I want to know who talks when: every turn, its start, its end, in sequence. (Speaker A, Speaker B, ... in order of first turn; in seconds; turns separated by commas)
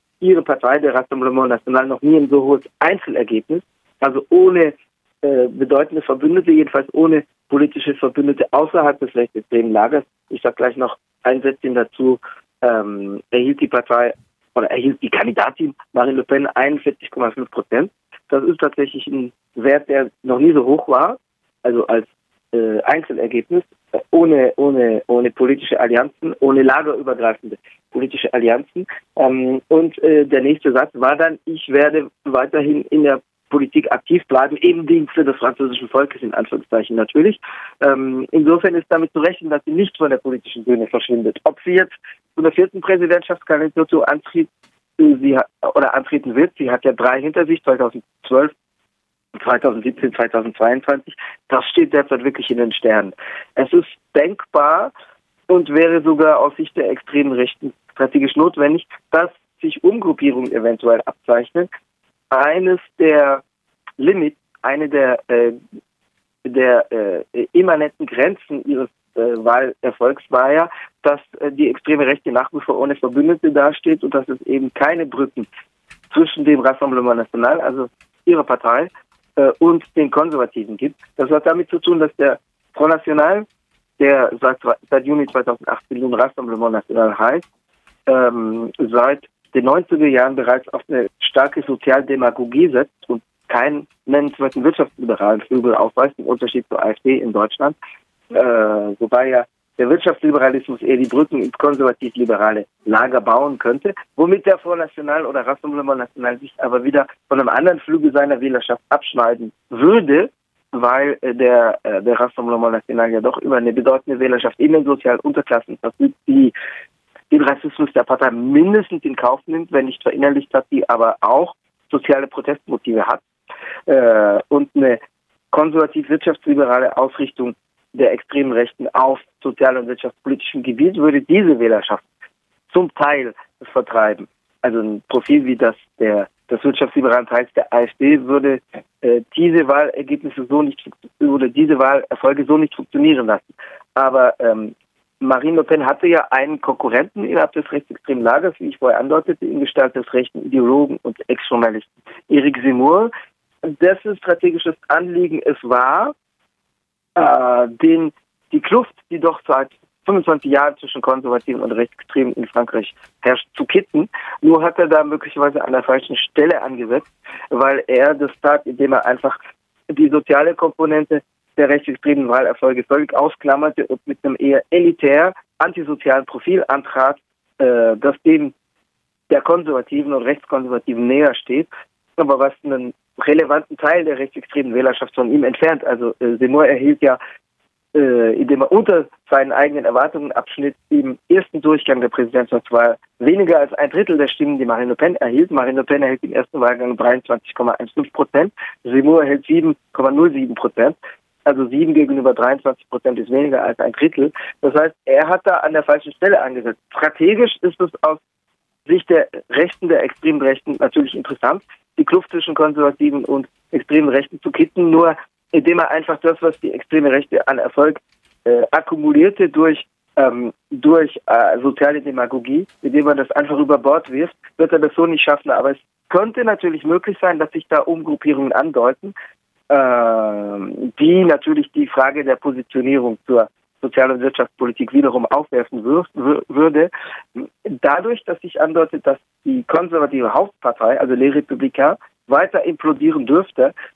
Speaker A: 0.2-48.5, Speaker A: 49.4-54.9, Speaker A: 55.5-61.7, Speaker A: 62.3-63.4, Speaker A: 64.0-65.6, Speaker A: 66.5-75.5, Speaker A: 76.1-83.5, Speaker A: 84.0-87.4, Speaker A: 88.1-97.8, Speaker A: 98.3-116.5, Speaker A: 117.3-123.2, Speaker A: 123.9-125.0, Speaker A: 125.5-132.1, Speaker A: 132.7-153.1, Speaker A: 153.7-156.1, Speaker A: 157.2-169.4, Speaker A: 169.9-178.5, Speaker A: 179.3-187.2, Speaker A: 187.9-208.2, Speaker A: 208.9-229.1, Speaker A: 229.7-243.7